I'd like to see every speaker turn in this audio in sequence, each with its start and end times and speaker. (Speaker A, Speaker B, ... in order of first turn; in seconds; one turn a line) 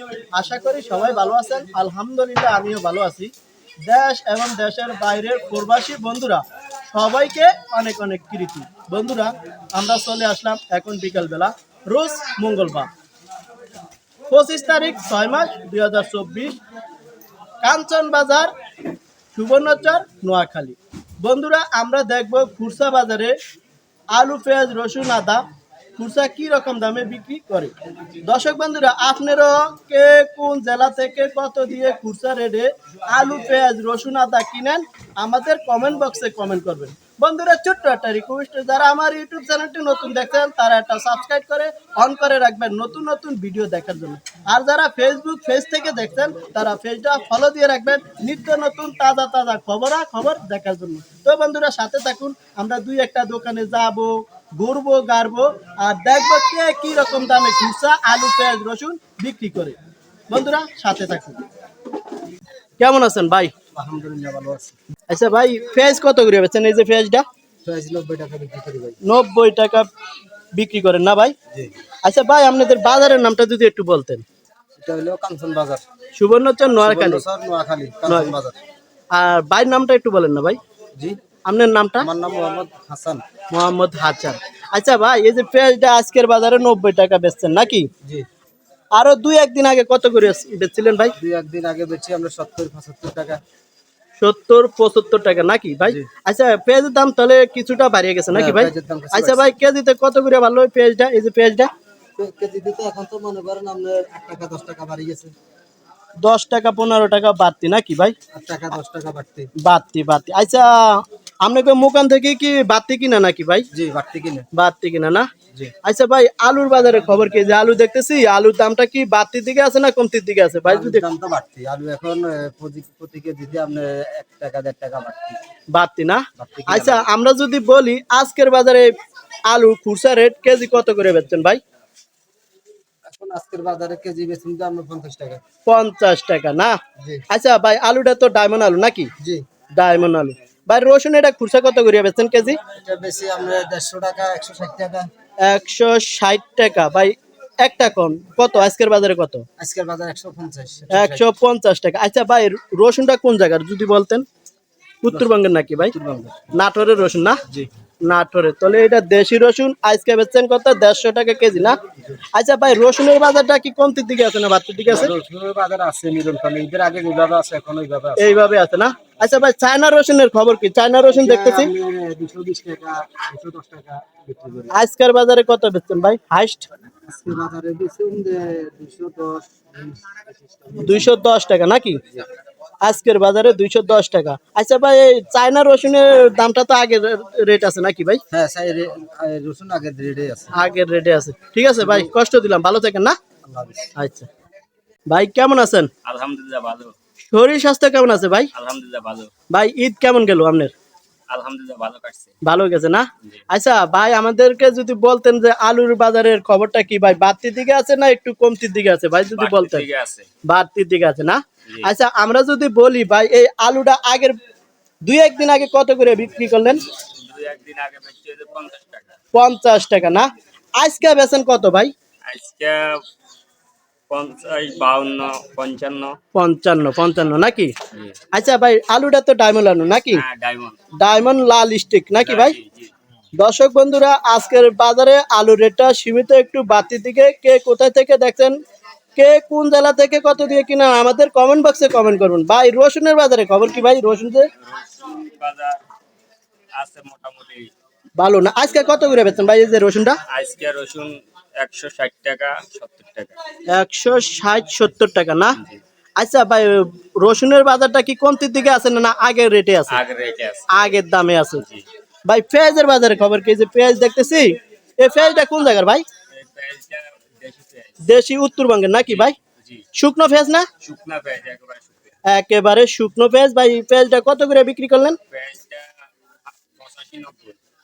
Speaker A: 0.3-3.3
Speaker A: 3.8-12.9
Speaker A: 14.3-16.6
Speaker A: 17.6-18.5
Speaker A: 19.3-23.3
Speaker A: 24.1-25.4
Speaker A: 26.0-27.7
Speaker A: 28.2-59.8
Speaker A: 60.3-61.4
Speaker A: 62.8-63.5
Speaker B: 63.7-64.7
Speaker A: 65.1-67.2
Speaker B: 67.6-69.0
Speaker A: 69.0-69.9
Speaker A: 70.5-71.3
Speaker A: 72.0-74.2
Speaker B: 74.8-75.8
Speaker A: 76.2-77.2
Speaker B: 76.8-78.5
Speaker A: 78.1-78.3
Speaker A: 79.1-80.6
Speaker A: 81.5-82.1
Speaker B: 82.0-83.2
Speaker A: 83.5-87.9
Speaker A: 89.0-91.1
Speaker B: 91.2-93.4
Speaker A: 94.2-101.7
Speaker B: 98.3-99.5
Speaker B: 102.2-105.3
Speaker A: 106.2-108.2
Speaker B: 108.3-109.5
Speaker A: 109.6-113.7
Speaker B: 113.7-114.5
Speaker A: 114.5-115.3
Speaker A: 115.8-121.0
Speaker B: 120.7-125.4
Speaker A: 125.7-128.9
Speaker B: 126.4-127.0
Speaker A: 129.5-131.6
Speaker B: 133.0-135.4
Speaker A: 135.7-136.8
Speaker A: 137.3-139.1
Speaker B: 139.2-139.4
Speaker A: 139.8-142.6
Speaker B: 142.6-145.1
Speaker A: 145.4-149.4
Speaker B: 149.6-151.3
Speaker A: 150.9-154.2
Speaker A: 155.0-155.9
Speaker B: 155.9-156.4
Speaker A: 156.5-157.4
Speaker A: 158.1-161.8
Speaker B: 161.8-162.2
Speaker A: 162.3-165.1
Speaker B: 164.9-168.4
Speaker A: 168.2-171.7
Speaker B: 171.1-174.7
Speaker A: 174.7-176.7
Speaker B: 177.1-181.0
Speaker A: 180.8-182.0
Speaker A: 182.8-188.2
Speaker B: 188.3-190.5
Speaker A: 190.5-193.2
Speaker B: 193.4-193.8
Speaker A: 193.9-194.3
Speaker A: 195.1-195.9
Speaker C: 196.0-196.9
Speaker A: 197.3-198.5
Speaker C: 198.5-199.3
Speaker A: 199.5-200.7
Speaker C: 201.3-202.3
Speaker A: 202.4-209.8
Speaker C: 209.3-210.3
Speaker A: 210.5-214.4
Speaker A: 215.0-216.8
Speaker C: 216.8-219.2
Speaker A: 219.3-220.2
Speaker A: 220.8-221.9
Speaker C: 222.3-223.0
Speaker C: 224.1-226.2
Speaker A: 226.3-227.7
Speaker A: 228.3-230.2
Speaker C: 230.1-230.8
Speaker A: 231.0-232.6
Speaker C: 232.2-232.9
Speaker A: 233.4-238.6
Speaker A: 239.2-244.5
Speaker C: 244.6-245.8
Speaker C: 246.7-247.7
Speaker A: 248.2-250.2
Speaker C: 250.3-253.3
Speaker A: 253.7-255.6
Speaker A: 256.2-260.0
Speaker C: 259.9-260.7
Speaker A: 260.7-261.6
Speaker C: 261.6-261.8
Speaker A: 262.3-266.0
Speaker C: 266.3-268.2
Speaker A: 268.0-269.3
Speaker C: 269.0-269.8
Speaker A: 269.9-270.7
Speaker C: 270.8-272.1
Speaker A: 272.2-275.2
Speaker C: 275.3-275.9
Speaker C: 276.5-277.6